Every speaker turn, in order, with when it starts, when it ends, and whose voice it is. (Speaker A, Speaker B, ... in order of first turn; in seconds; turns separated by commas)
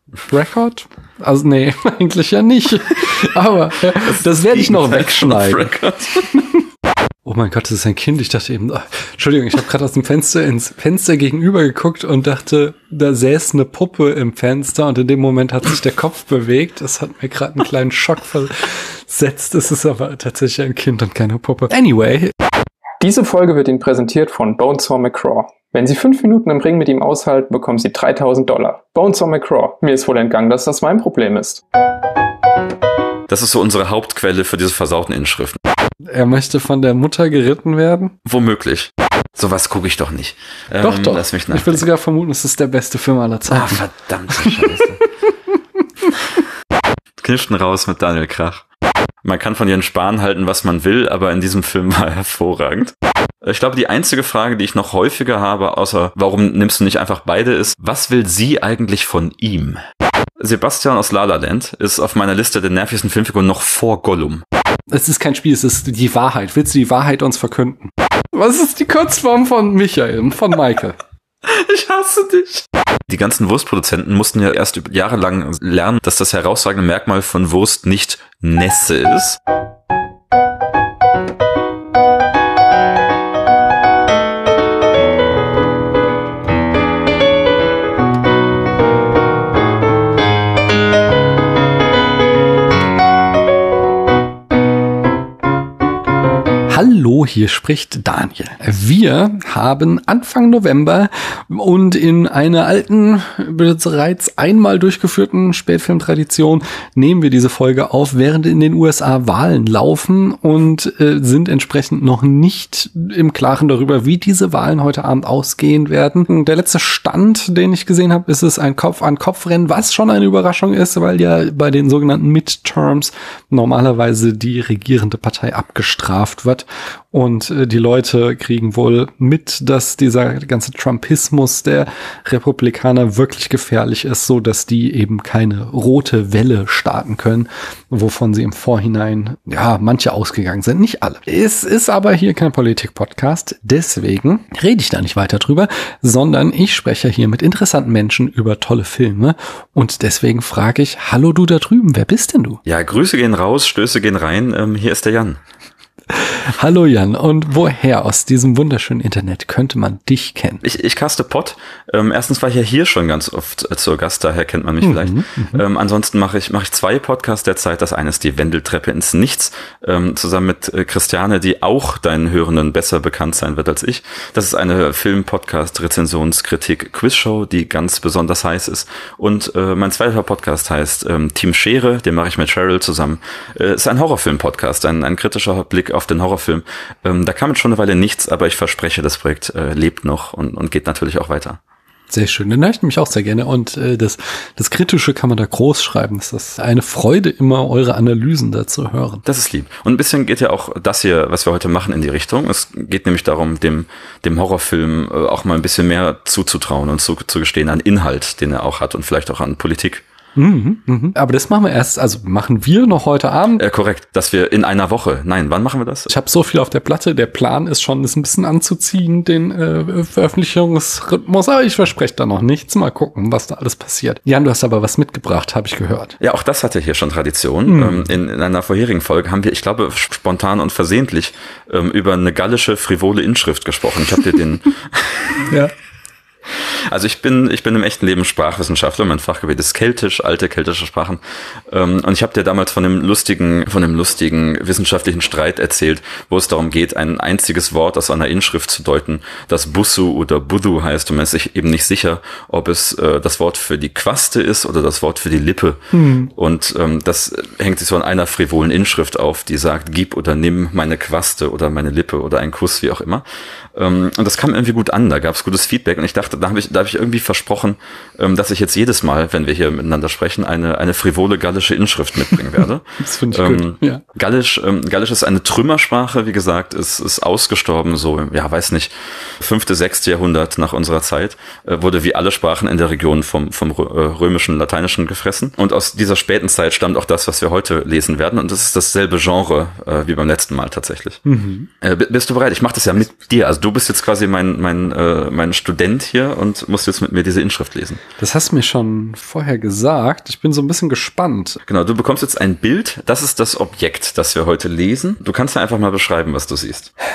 Speaker A: 0.2-5.7, Speaker B: 3.9-6.3, Speaker A: 7.2-22.3, Speaker C: 23.0-31.6, Speaker B: 33.3-35.6, Speaker A: 36.1-38.1, Speaker B: 38.2-41.9, Speaker A: 40.8-43.8, Speaker B: 43.5-45.0, Speaker A: 44.4-44.8, Speaker B: 47.2-48.6, Speaker B: 49.2-59.8, Speaker B: 60.4-64.4, Speaker A: 64.9-71.0, Speaker B: 71.4-79.4, Speaker A: 96.7-152.6, Speaker B: 152.6-155.4, Speaker A: 156.1-160.6, Speaker B: 160.6-191.6, Speaker A: 164.8-165.6, Speaker A: 192.1-199.2, Speaker B: 199.2-210.0, Speaker A: 210.3-213.6, Speaker B: 213.6-216.1, Speaker A: 216.1-226.1, Speaker B: 226.2-235.5, Speaker A: 227.7-228.1, Speaker A: 235.4-235.7, Speaker B: 236.5-291.2, Speaker A: 255.9-256.3, Speaker A: 273.0-274.0, Speaker A: 291.2-291.7, Speaker B: 291.8-298.0, Speaker A: 298.2-301.6, Speaker B: 301.6-306.9